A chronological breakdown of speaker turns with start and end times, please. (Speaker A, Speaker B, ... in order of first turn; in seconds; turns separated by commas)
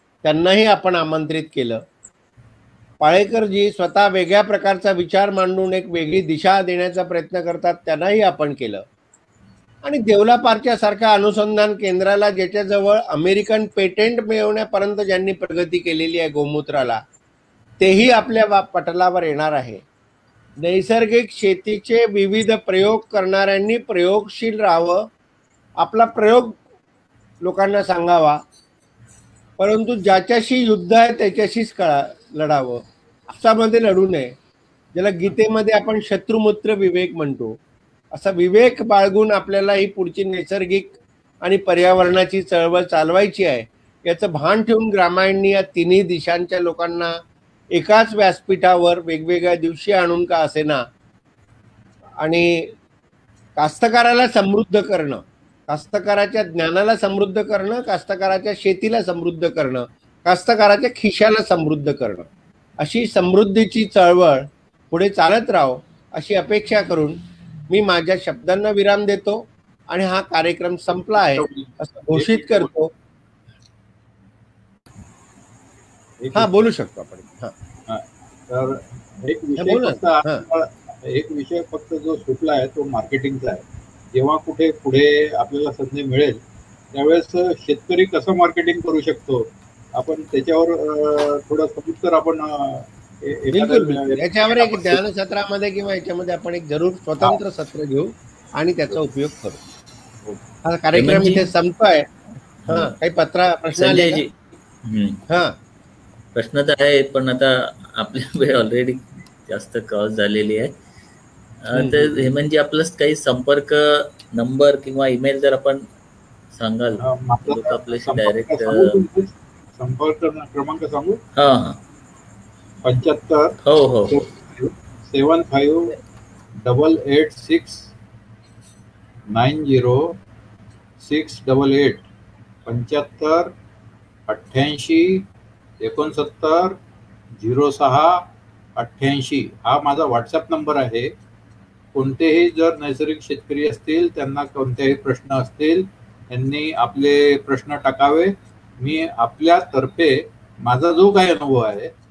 Speaker A: 0.2-1.8, Speaker A: 3.0-8.8, Speaker A: 9.8-17.0, Speaker A: 17.8-19.8, Speaker A: 20.6-25.1, Speaker A: 25.8-26.6, Speaker A: 27.4-28.4, Speaker A: 29.6-34.3, Speaker A: 34.9-37.6, Speaker A: 38.1-47.2, Speaker A: 47.7-50.9, Speaker A: 52.2-52.7, Speaker A: 53.6-62.3, Speaker A: 62.8-72.9, Speaker B: 71.2-72.7, Speaker B: 76.2-76.5, Speaker A: 76.3-77.5, Speaker B: 77.9-86.4, Speaker A: 79.6-80.4, Speaker B: 86.9-95.0, Speaker A: 93.5-99.6, Speaker A: 100.7-102.1, Speaker C: 100.9-101.5, Speaker A: 102.7-104.2, Speaker C: 103.8-104.3, Speaker C: 104.8-105.2, Speaker A: 105.3-105.6, Speaker C: 106.3-110.8, Speaker C: 111.6-115.9, Speaker A: 111.7-112.2, Speaker C: 116.5-119.0, Speaker B: 117.0-121.2, Speaker C: 121.4-121.8, Speaker B: 122.8-125.9, Speaker C: 123.7-124.2, Speaker B: 126.7-127.9, Speaker B: 129.3-130.2, Speaker B: 131.0-132.1, Speaker B: 132.7-133.5, Speaker B: 134.3-135.3, Speaker B: 135.8-136.8, Speaker B: 137.4-138.2, Speaker B: 138.8-141.1, Speaker B: 141.9-151.9